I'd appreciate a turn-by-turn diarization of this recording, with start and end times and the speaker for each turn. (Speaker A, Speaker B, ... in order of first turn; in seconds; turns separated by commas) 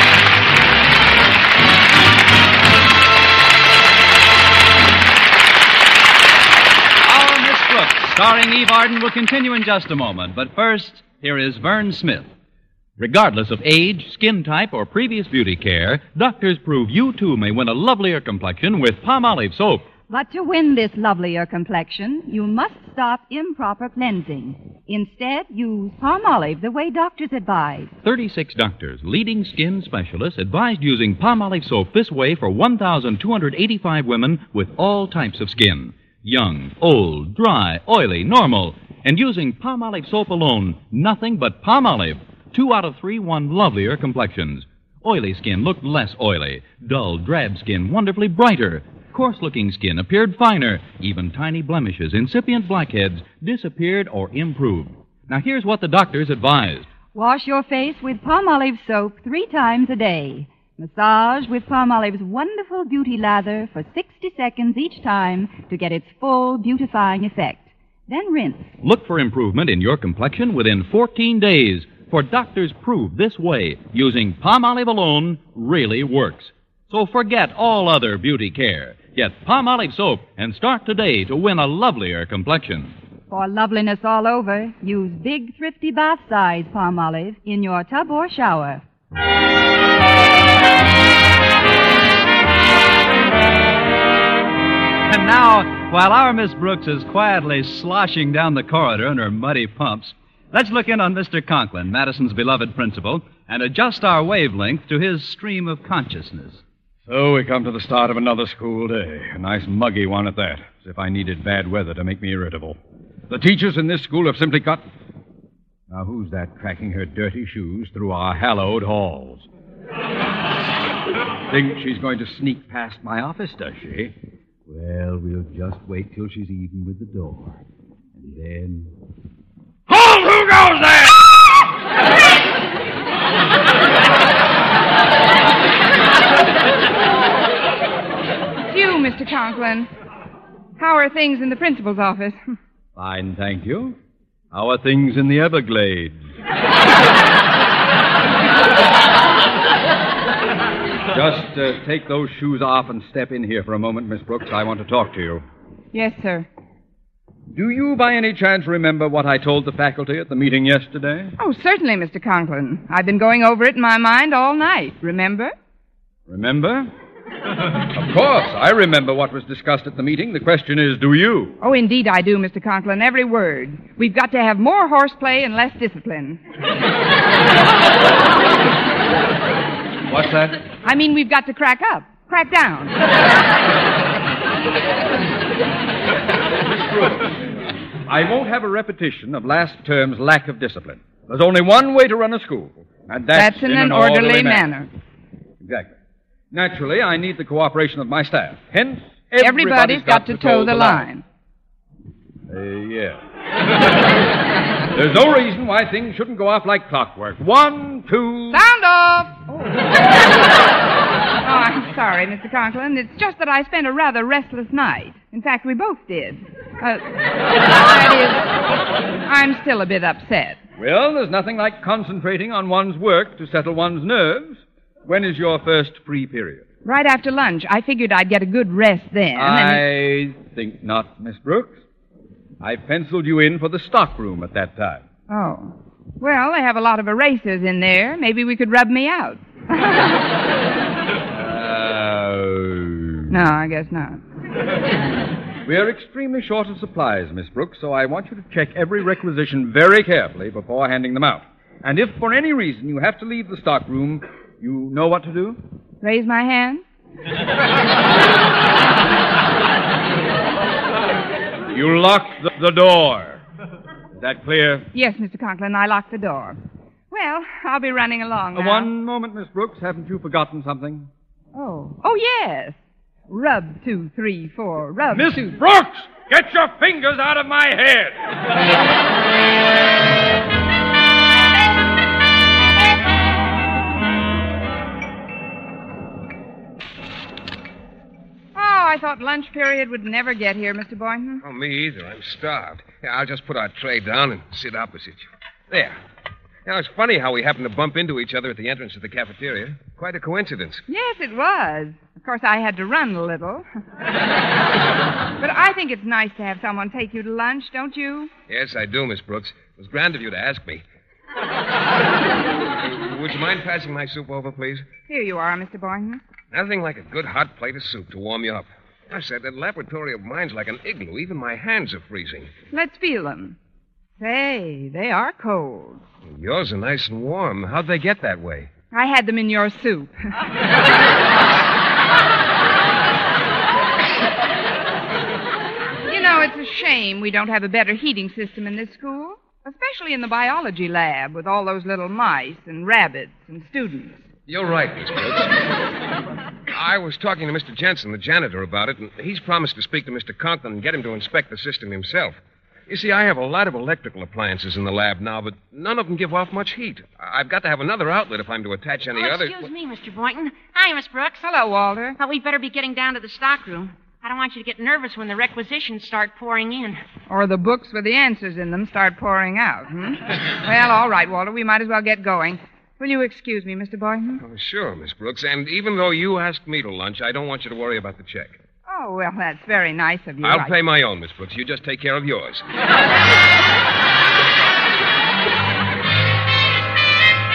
Speaker A: 7.0-12.3, Speaker A: 13.0-19.9, Speaker B: 20.1-27.9, Speaker A: 28.0-56.9, Speaker B: 57.1-68.7, Speaker A: 68.8-83.0, Speaker B: 83.3-88.8, Speaker A: 95.1-106.6, Speaker C: 107.1-114.8, Speaker C: 115.9-119.5, Speaker C: 121.5-124.1, Speaker C: 124.7-127.6, Speaker C: 128.2-128.9, Speaker C: 129.9-131.3, Speaker D: 138.7-139.9, Speaker D: 140.8-142.4, Speaker C: 143.0-144.0, Speaker C: 144.5-146.3, Speaker C: 151.1-155.4, Speaker D: 155.9-156.5, Speaker C: 157.5-161.3, Speaker D: 161.4-165.5, Speaker C: 166.3-166.9, Speaker C: 167.8-171.6, Speaker D: 171.6-176.4, Speaker C: 180.1-180.6, Speaker D: 180.8-183.0, Speaker C: 186.6-187.4, Speaker C: 188.1-194.7, Speaker D: 193.3-194.9, Speaker C: 195.6-196.0, Speaker C: 196.5-201.1, Speaker D: 199.4-201.2, Speaker C: 202.5-203.2, Speaker C: 204.9-208.6, Speaker D: 208.5-210.0, Speaker D: 211.4-217.1, Speaker D: 217.7-218.5, Speaker D: 219.2-220.6, Speaker C: 220.8-226.7, Speaker D: 226.8-229.8, Speaker C: 229.3-231.8, Speaker C: 232.6-235.1, Speaker D: 235.3-240.2, Speaker C: 241.3-243.2, Speaker D: 243.3-244.2, Speaker C: 245.6-255.6, Speaker D: 256.0-256.8, Speaker C: 261.7-263.4, Speaker C: 264.2-264.9, Speaker D: 264.9-266.6, Speaker D: 267.1-268.9, Speaker C: 268.6-271.1, Speaker D: 271.5-272.8, Speaker D: 273.3-275.6, Speaker C: 275.1-278.3, Speaker D: 288.6-291.4, Speaker E: 291.4-296.0, Speaker E: 296.6-300.8, Speaker D: 300.9-303.7, Speaker D: 305.4-308.3, Speaker E: 308.5-310.8, Speaker E: 312.8-314.9, Speaker D: 315.1-316.2, Speaker E: 316.5-322.5, Speaker D: 322.7-323.6, Speaker D: 324.2-326.0, Speaker E: 326.3-328.7, Speaker D: 328.9-330.1, Speaker D: 336.1-344.3, Speaker E: 344.5-345.6, Speaker E: 346.7-359.6, Speaker F: 359.1-361.4, Speaker D: 361.4-362.2, Speaker F: 362.2-367.0, Speaker D: 367.3-374.4, Speaker E: 374.4-378.6, Speaker D: 378.9-380.8, Speaker E: 380.4-382.6